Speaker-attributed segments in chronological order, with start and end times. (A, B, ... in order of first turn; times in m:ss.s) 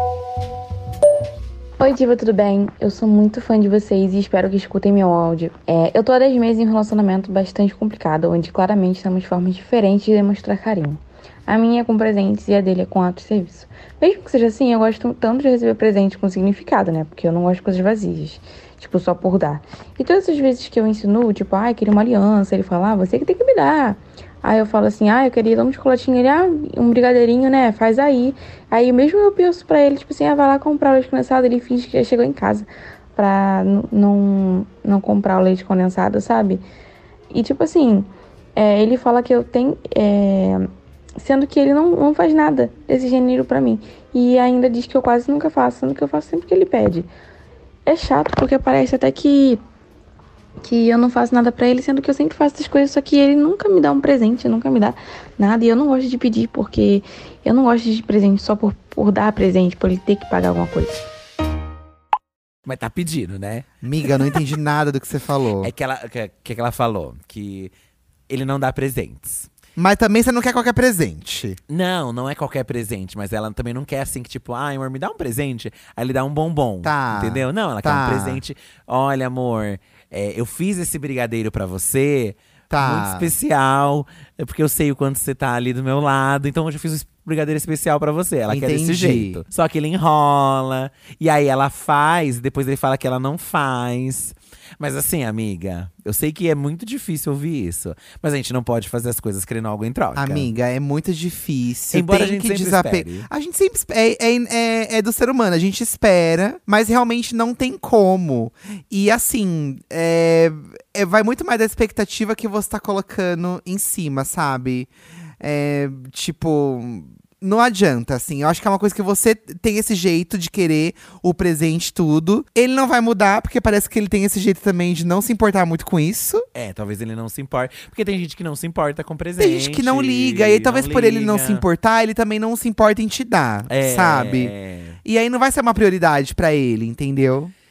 0:01.8-0:36.6 A
0:37.3-0:47.1 A
0:47.8-0:49.6 A
0:50.6-1:01.0 A
1:02.6-1:04.4 B
1:03.8-1:05.7 C
1:05.6-1:07.7 B
1:08.3-1:09.5 B
1:09.8-1:11.6 C
1:11.7-1:40.5 B
1:16.8-1:18.4 C
1:22.7-1:23.3 C
1:28.5-1:29.4 C
1:40.2-1:54.9 C
1:41.9-1:43.3 B
1:55.4-2:06.5 C
2:06.5-2:11.6 B
2:09.4-2:14.5 C
2:13.7-2:15.0 B
2:15.0-2:17.5 C